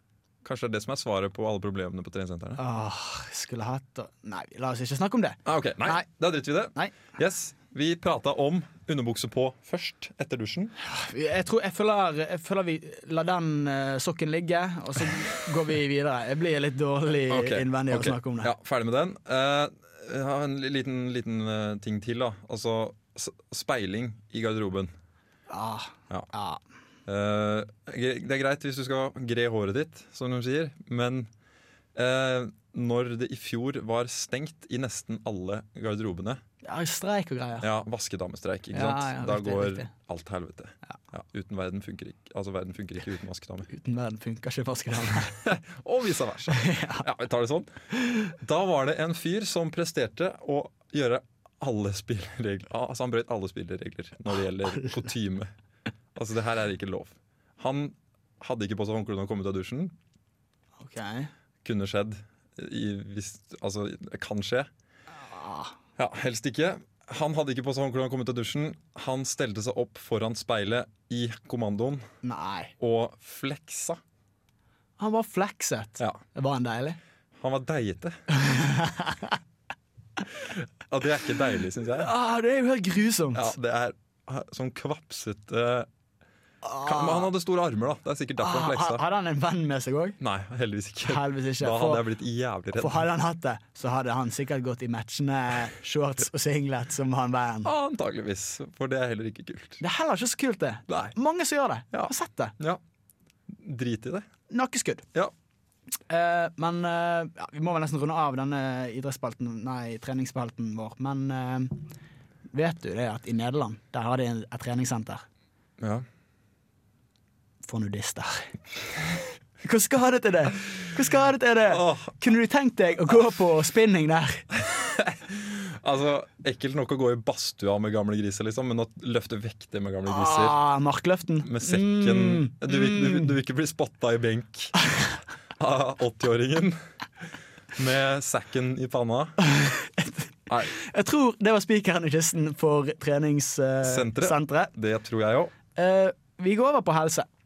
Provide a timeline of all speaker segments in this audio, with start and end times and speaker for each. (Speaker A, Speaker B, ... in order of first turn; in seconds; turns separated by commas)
Speaker A: 0.4-2.6, Speaker B: 2.6-6.0, Speaker A: 5.5-10.7, Speaker B: 10.8-18.5, Speaker A: 17.3-24.9, Speaker B: 25.5-26.6, Speaker A: 27.1-31.3, Speaker A: 31.9-36.4, Speaker B: 36.6-37.7, Speaker A: 37.6-43.7, Speaker B: 38.7-39.9, Speaker B: 43.7-45.4, Speaker A: 45.1-47.7, Speaker B: 46.5-47.0, Speaker A: 48.3-55.5, Speaker A: 56.1-59.9, Speaker B: 60.8-61.3, Speaker A: 61.6-64.7, Speaker B: 65.2-65.8, Speaker A: 66.0-72.0, Speaker B: 72.2-72.7, Speaker A: 72.8-74.0, Speaker B: 75.0-77.0, Speaker A: 77.4-78.2, Speaker B: 78.3-79.4, Speaker A: 80.4-82.1, Speaker B: 81.9-83.5, Speaker A: 83.3-85.9, Speaker B: 86.6-87.3, Speaker A: 86.8-89.0, Speaker B: 88.4-90.2, Speaker A: 90.2-93.1, Speaker B: 91.0-92.0, Speaker B: 92.7-97.7, Speaker A: 97.6-99.8, Speaker B: 99.8-102.5, Speaker A: 100.9-101.1, Speaker A: 101.9-102.8, Speaker A: 103.5-104.2, Speaker B: 104.5-105.0, Speaker B: 106.1-111.9, Speaker B: 112.5-115.2, Speaker A: 115.8-116.0, Speaker B: 117.6-118.5, Speaker B: 119.6-124.4, Speaker A: 121.7-122.2, Speaker A: 124.5-130.6, Speaker B: 130.1-133.3, Speaker A: 131.4-134.7, Speaker A: 135.6-136.8, Speaker A: 137.8-139.4, Speaker B: 139.4-144.7, Speaker A: 143.8-145.5, Speaker B: 145.7-147.3